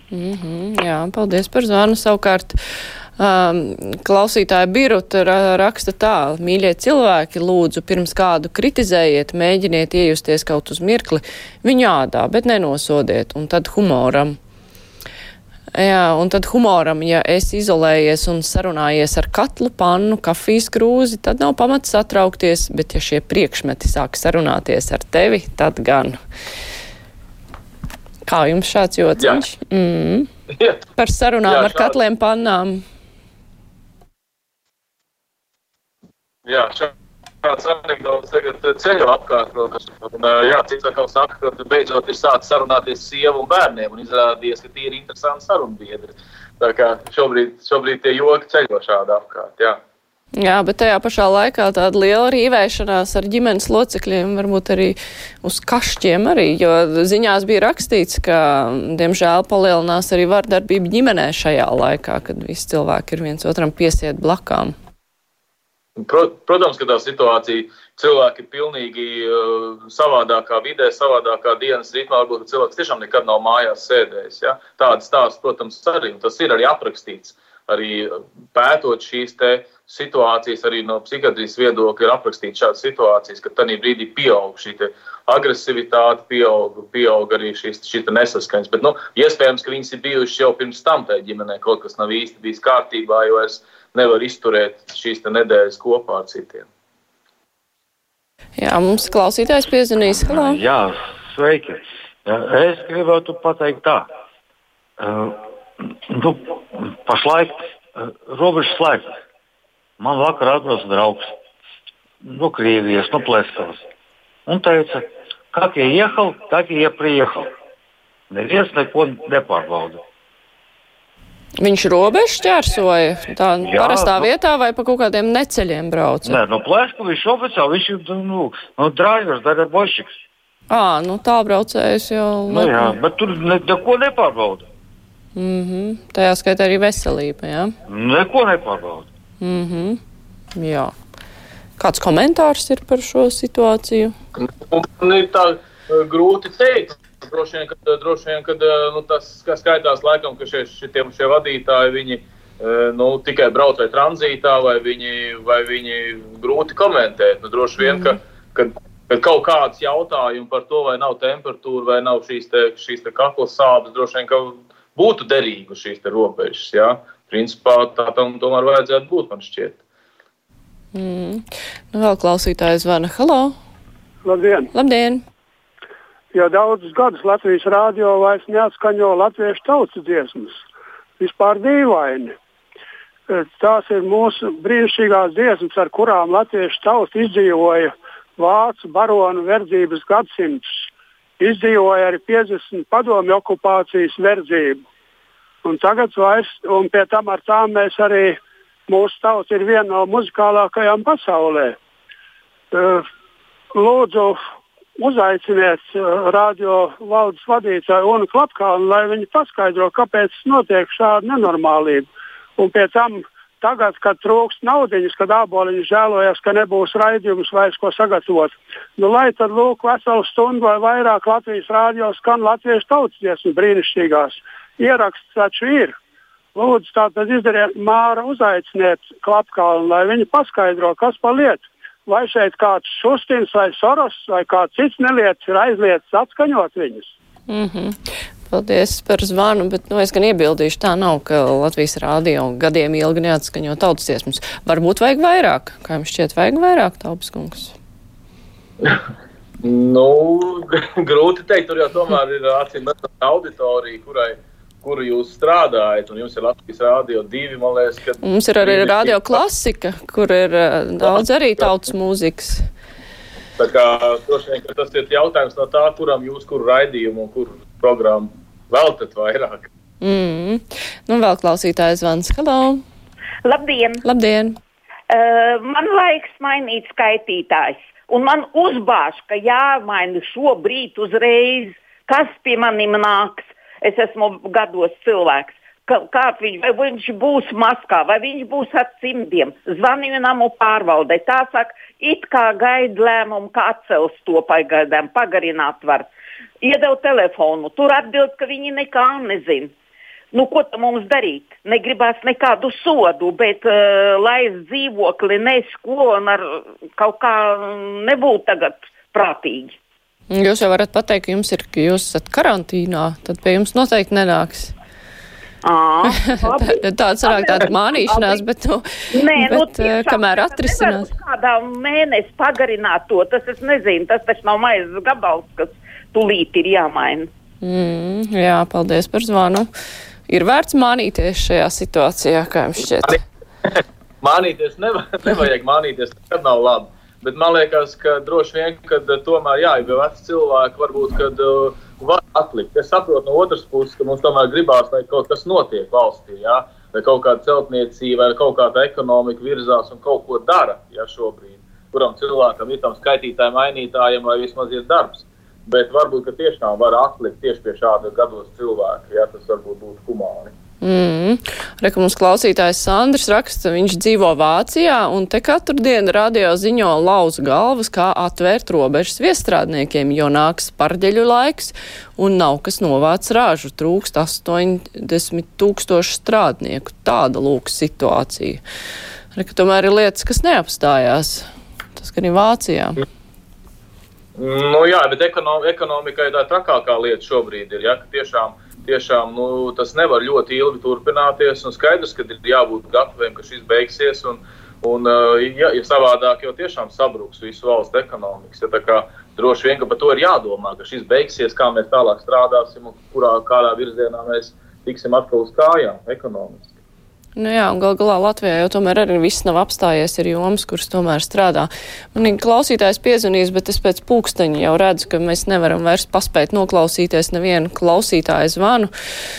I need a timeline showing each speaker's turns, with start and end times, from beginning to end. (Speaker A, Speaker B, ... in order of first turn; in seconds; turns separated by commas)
Speaker A: 0.1-2.6, Speaker A: 3.2-14.4, Speaker A: 15.7-26.2, Speaker A: 28.2-30.3, Speaker B: 30.5-30.8, Speaker A: 31.0-32.8, Speaker B: 31.4-31.9, Speaker B: 36.5-36.9, Speaker B: 37.4-49.8, Speaker A: 50.4-64.7, Speaker B: 66.0-96.7, Speaker A: 98.6-100.6, Speaker C: 100.0-104.1, Speaker C: 105.0-109.2, Speaker C: 110.0-111.3, Speaker C: 112.2-113.8, Speaker C: 114.5-117.5, Speaker C: 118.3-120.0, Speaker A: 121.6-126.4, Speaker C: 123.6-124.3, Speaker C: 126.2-130.1, Speaker A: 130.7-132.9, Speaker C: 132.5-134.6, Speaker A: 135.3-137.7, Speaker C: 137.9-139.1, Speaker A: 139.4-140.0, Speaker A: 140.5-140.9, Speaker A: 141.8-144.1, Speaker B: 144.4-169.8, Speaker A: 157.8-158.2, Speaker A: 170.9-173.5, Speaker D: 174.2-174.7, Speaker A: 174.7-175.2, Speaker D: 176.3-180.7, Speaker D: 181.2-182.3, Speaker D: 183.3-190.9, Speaker D: 191.4-194.8, Speaker D: 195.6-201.8, Speaker D: 202.7-203.1, Speaker D: 203.7-204.4, Speaker D: 205.0-226.0, Speaker D: 226.5-237.1, Speaker A: 237.5-247.7, Speaker B: 249.6-259.4, Speaker A: 258.2-262.7, Speaker B: 261.0-261.9, Speaker B: 263.6-269.7, Speaker A: 270.0-272.8, Speaker E: 273.4-274.0, Speaker A: 274.0-274.6, Speaker E: 275.1-296.1, Speaker E: 296.6-299.7, Speaker E: 300.3-309.8, Speaker A: 310.3-314.7, Speaker E: 315.6-318.4, Speaker A: 316.0-321.1, Speaker E: 319.1-327.3, Speaker A: 327.6-329.7, Speaker A: 330.3-333.2, Speaker B: 333.0-360.5, Speaker A: 360.8-378.6, Speaker A: 379.3-383.0, Speaker B: 384.4-406.7, Speaker A: 407.4-418.9